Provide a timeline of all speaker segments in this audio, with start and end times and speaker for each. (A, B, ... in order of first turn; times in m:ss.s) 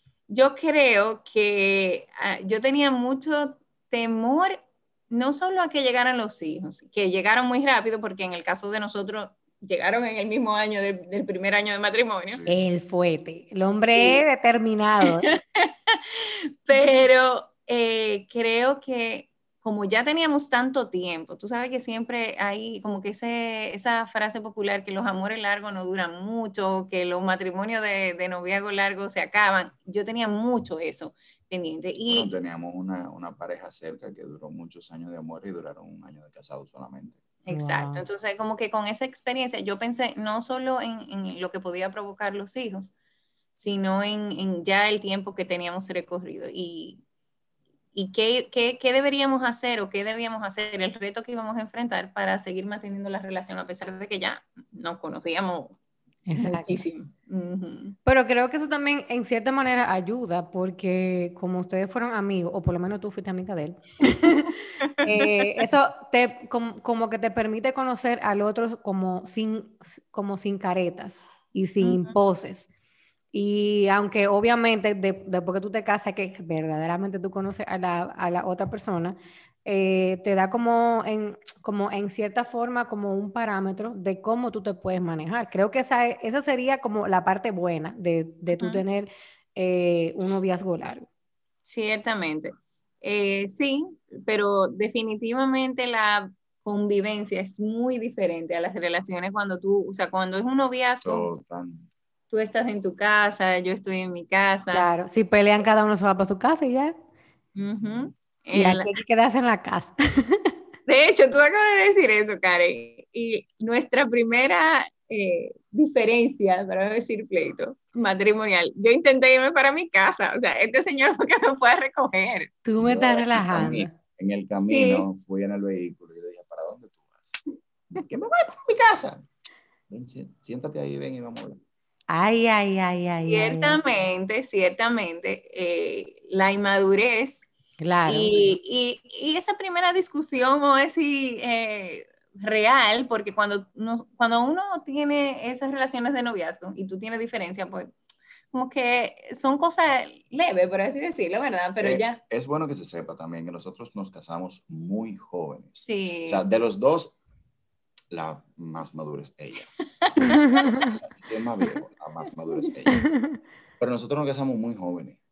0:00.3-0:12.4 A
0:12.3-0:12.6 B
0:12.5-0:15.3 C
0:13.8-0:14.2 A
0:15.1-0:32.3 A
0:32.1-0:37.2 B
0:37.4-0:42.9 A
0:37.5-0:38.0 C
0:43.6-0:47.0 A
0:47.9-0:55.8 A
0:56.3-0:56.8 C
0:56.4-0:58.0 A
0:58.0-1:12.7 C
1:04.8-1:05.4 A
1:11.8-1:12.1 A
1:13.3-1:31.1 C
1:28.5-1:28.8 A
1:31.6-1:41.3 A
1:41.0-1:41.9 B
1:42.3-1:44.9 A
1:44.7-1:47.0 C
1:47.6-1:48.9 A
1:48.5-1:50.5 C
1:50.9-2:02.6 A
2:02.6-2:03.9 C
2:02.8-2:07.4 B
2:04.6-2:05.1 A
2:07.9-2:09.3 B
2:09.9-2:11.6 B
2:12.1-2:13.8 C
2:13.3-2:17.5 A
2:17.8-2:18.5 C
2:18.1-2:27.9 A
2:28.5-2:32.2 A
2:31.8-2:37.2 B
2:35.8-2:36.5 A
2:38.1-2:39.7 B
2:39.8-2:40.6 A
2:40.2-2:40.9 C
2:40.8-2:43.1 B
2:43.8-2:45.2 B